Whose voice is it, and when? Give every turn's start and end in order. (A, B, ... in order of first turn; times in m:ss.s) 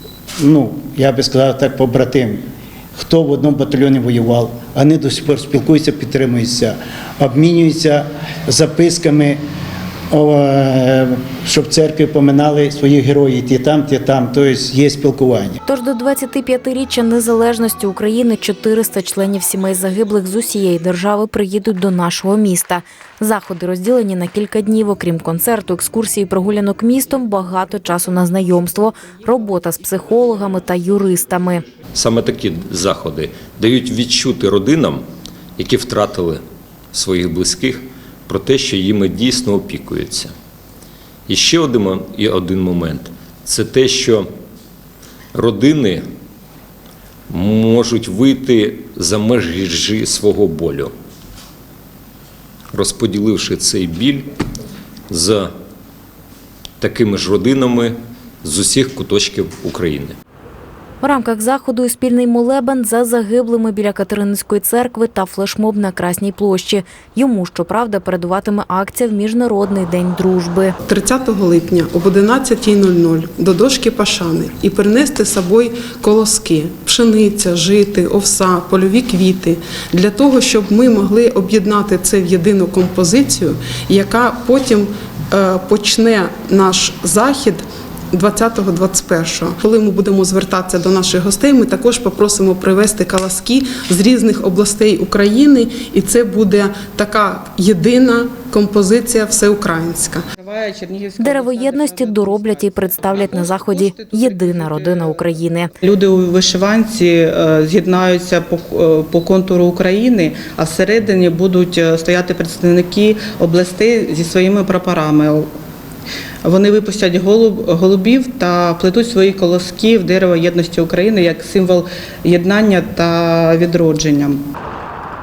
0:00.4-0:02.4 A
0:03.0-0:09.4 A
0:10.1-0:15.6 A
0:15.7-0:31.6 B
0:31.9-0:35.0 C
0:35.6-0:40.3 C
0:41.3-0:44.3 C
0:45.3-0:46.0 C
0:47.3-0:50.9 C
0:52.7-0:54.3 C
0:55.1-0:55.5 C
0:56.8-1:00.2 C
1:01.0-1:10.8 B
1:10.9-1:40.2 D
1:40.4-1:45.1 E
1:41.2-1:45.7 B
1:45.8-1:55.5 E
1:56.4-2:04.4 E